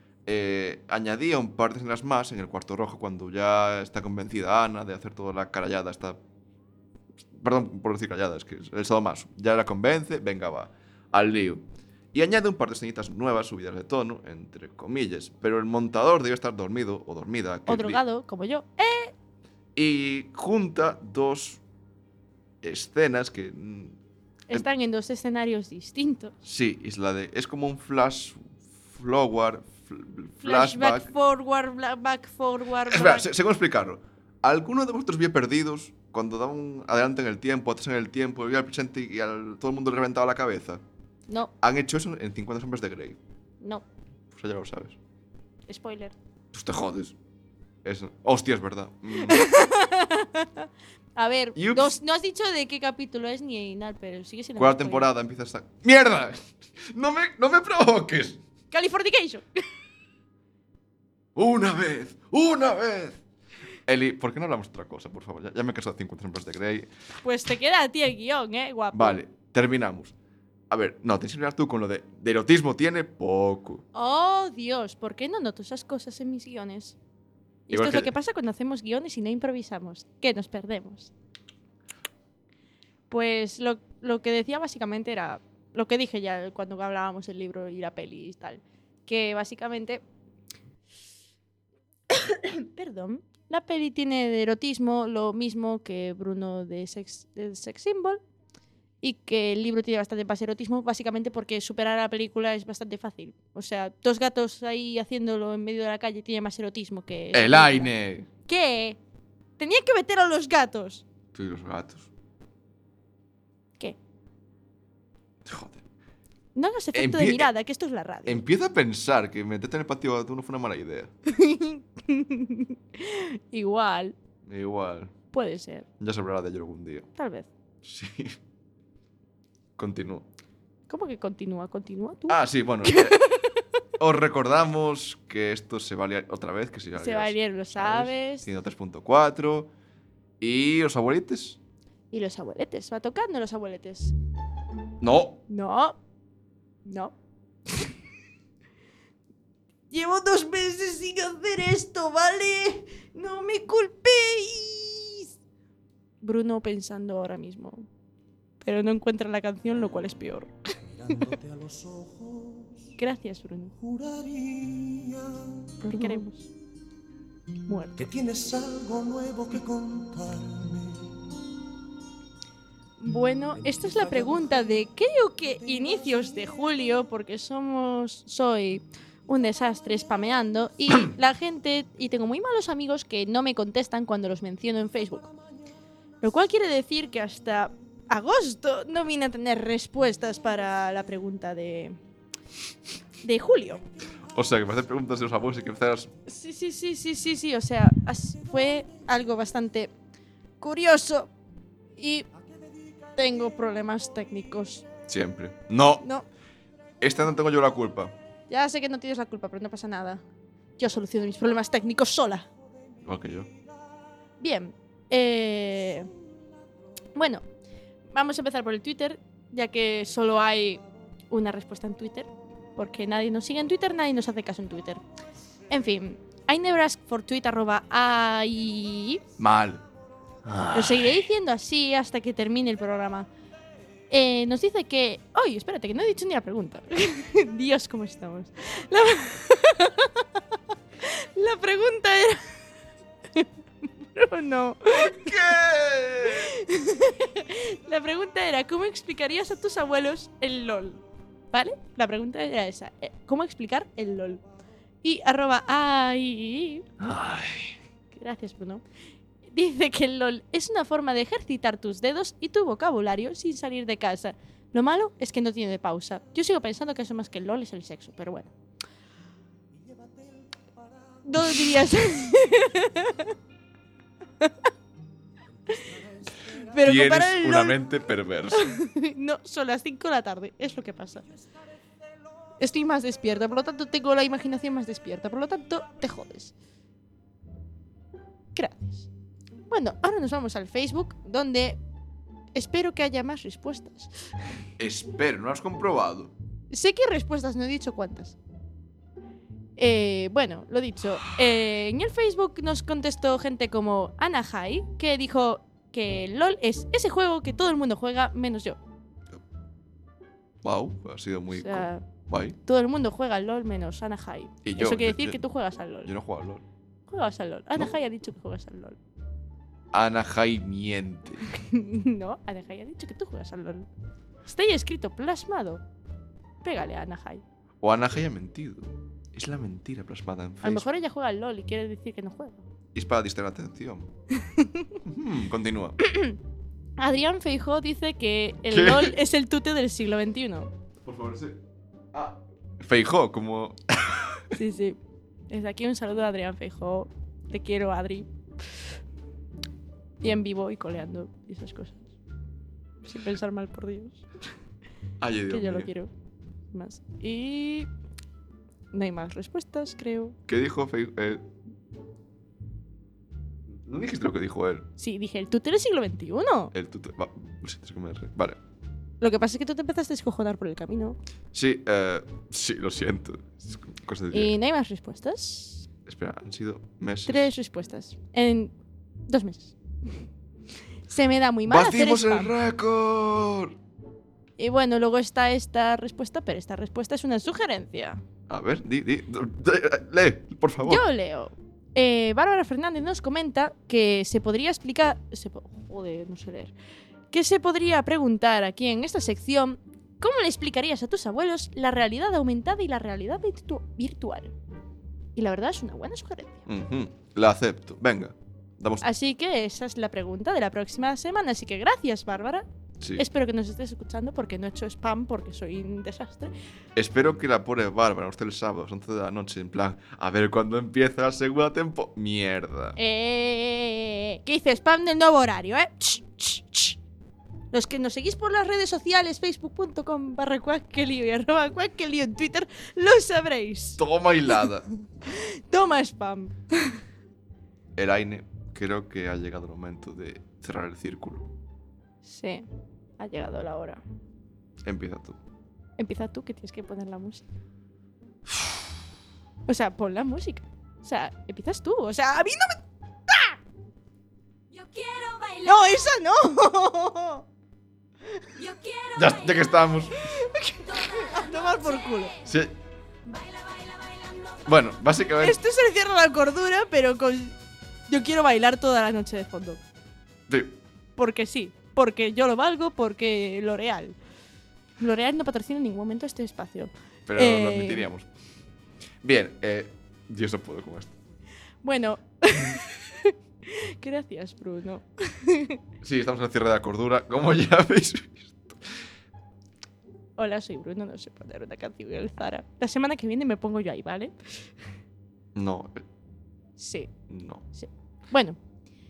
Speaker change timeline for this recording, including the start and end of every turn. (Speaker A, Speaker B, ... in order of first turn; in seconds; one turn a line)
Speaker A: 0.3-6.2
Speaker A: 7.3-11.6
Speaker A: 12.1-18.0
Speaker B: 17.7-19.1
Speaker A: 19.8-21.6
Speaker A: 22.6-24.0
Speaker B: 24.5-26.3
Speaker A: 26.4-31.1
Speaker B: 30.4-33.3
Speaker A: 32.9-40.8
Speaker A: 41.6-43.2
Speaker A: 44.3-45.0
Speaker B: 45.7-46.1
Speaker A: 46.5-47.2
Speaker A: 47.8-49.5
Speaker B: 49.3-55.1
Speaker A: 51.6-52.0
Speaker A: 54.6-58.4
Speaker B: 58.7-59.6
Speaker A: 61.4-63.2
Speaker A: 63.9-66.9
Speaker B: 67.2-69.2
Speaker A: 68.9-70.1
Speaker A: 70.7-73.8
Speaker B: 73.9-77.0
Speaker B: 77.7-81.1
Speaker A: 77.7-78.1
Speaker B: 83.1-90.0
Speaker B: 92.1-98.2
Speaker B: 99.0-109.0
Speaker A: 107.3-108.3
Speaker B: 109.6-111.0
Speaker A: 111.3-112.1
Speaker A: 115.5-115.8
Speaker B: 116.5-118.4
Speaker A: 116.9-117.5
Speaker A: 118.3-121.1
Speaker B: 121.3-124.2
Speaker A: 124.5-125.1
Speaker B: 125.3-125.9
Speaker A: 126.0-127.1
Speaker B: 127.2-127.5
Speaker A: 127.8-128.4
Speaker A: 129.8-130.3
Speaker B: 130.9-133.6
Speaker A: 132.3-133.3
Speaker A: 134.0-139.7
Speaker B: 137.0-138.5
Speaker A: 140.4-141.6
Speaker B: 142.1-144.2
Speaker A: 145.0-145.4
Speaker B: 145.5-146.0
Speaker B: 146.8-147.1
Speaker B: 149.9-155.3
Speaker B: 156.2-157.9
Speaker B: 158.6-160.6
Speaker C: 160.9-162.9
Speaker B: 163.0-163.7
Speaker C: 163.8-166.2
Speaker B: 165.8-166.5
Speaker B: 167.7-168.0
Speaker C: 168.0-171.3
Speaker B: 173.0-185.3
Speaker C: 173.6-174.9
Speaker C: 175.7-176.3
Speaker B: 186.2-192.0
Speaker B: 193.2-193.8
Speaker A: 194.3-196.1
Speaker B: 196.3-199.9
Speaker B: 200.6-201.3
Speaker B: 202.0-202.3
Speaker B: 203.2-204.8
Speaker A: 205.1-206.1
Speaker B: 206.0-206.3
Speaker A: 207.0-208.1
Speaker B: 208.5-210.2
Speaker B: 210.8-212.5
Speaker A: 213.0-213.5
Speaker B: 214.4-216.1
Speaker B: 217.2-217.4
Speaker B: 218.1-225.0
Speaker B: 225.7-229.2
Speaker A: 229.4-229.8
Speaker A: 230.5-231.2
Speaker B: 230.7-233.3
Speaker B: 234.1-240.4
Speaker B: 241.0-242.4
Speaker B: 244.0-245.4
Speaker A: 244.9-246.6
Speaker B: 246.3-251.0
Speaker B: 251.5-254.4
Speaker B: 255.0-256.9
Speaker A: 257.0-257.8
Speaker B: 258.1-258.8
Speaker B: 259.5-268.5
Speaker B: 271.2-273.4
Speaker B: 276.4-277.8
Speaker A: 276.8-278.8
Speaker B: 278.5-281.3
Speaker B: 282.6-286.5
Speaker B: 288.6-289.1
Speaker B: 289.7-291.8
Speaker B: 292.6-294.1
Speaker A: 294.8-296.3
Speaker B: 296.7-298.4
Speaker B: 299.8-308.8
Speaker A: 310.6-312.6
Speaker B: 311.5-312.1
Speaker B: 312.6-316.1
Speaker A: 314.6-315.4
Speaker A: 316.1-316.6
Speaker B: 317.1-319.0
Speaker A: 319.9-321.4
Speaker B: 321.5-323.9
Speaker B: 324.4-325.8
Speaker B: 326.6-327.4
Speaker A: 327.8-330.9
Speaker B: 330.6-332.7
Speaker A: 332.9-334.1
Speaker B: 334.4-334.9
Speaker A: 335.0-336.0
Speaker B: 336.0-336.4
Speaker B: 337.0-340.7
Speaker A: 338.7-339.1
Speaker A: 341.0-341.6
Speaker A: 342.1-344.5
Speaker B: 344.5-345.0
Speaker B: 345.5-348.3
Speaker B: 350.2-352.1
Speaker B: 353.0-354.2
Speaker A: 355.2-355.9
Speaker B: 355.5-356.1
Speaker B: 356.7-357.9
Speaker B: 358.9-360.4
Speaker A: 360.5-361.4
Speaker A: 363.8-364.9
Speaker B: 365.0-366.7
Speaker A: 366.7-368.6
Speaker B: 369.2-371.2
Speaker A: 371.5-374.5
Speaker B: 374.3-375.9
Speaker A: 376.1-377.5
Speaker B: 377.3-378.7
Speaker B: 379.3-379.8
Speaker B: 381.1-382.5
Speaker A: 381.7-383.8
Speaker B: 384.6-388.2
Speaker A: 388.5-391.0
Speaker B: 390.8-396.7
Speaker B: 397.3-404.5
Speaker B: 405.4-406.7
Speaker A: 406.7-409.1
Speaker B: 409.0-416.5
Speaker A: 413.0-413.2
Speaker A: 417.0-423.0
Speaker B: 423.0-427.0
Speaker B: 427.7-434.7
Speaker A: 434.0-434.9
Speaker B: 435.2-437.0
Speaker A: 437.9-441.5
Speaker B: 442.2-442.7
Speaker B: 443.2-444.0
Speaker A: 444.8-445.4
Speaker B: 446.0-447.4
Speaker B: 449.7-453.6
Speaker B: 454.8-457.4
Speaker B: 458.4-459.2
Speaker A: 459.1-460.4
Speaker B: 460.3-462.4
Speaker A: 462.4-462.7
Speaker A: 464.6-465.6
Speaker B: 465.4-467.6
Speaker B: 468.1-469.8
Speaker A: 470.5-470.8
Speaker B: 471.2-474.2
Speaker B: 475.0-478.1
Speaker A: 477.3-478.3
Speaker A: 479.2-481.1
Speaker B: 481.8-485.8
Speaker A: 486.0-488.8
Speaker B: 490.4-494.3
Speaker A: 495.6-496.1
Speaker B: 496.8-497.1
Speaker A: 497.3-497.6
Speaker B: 497.7-498.6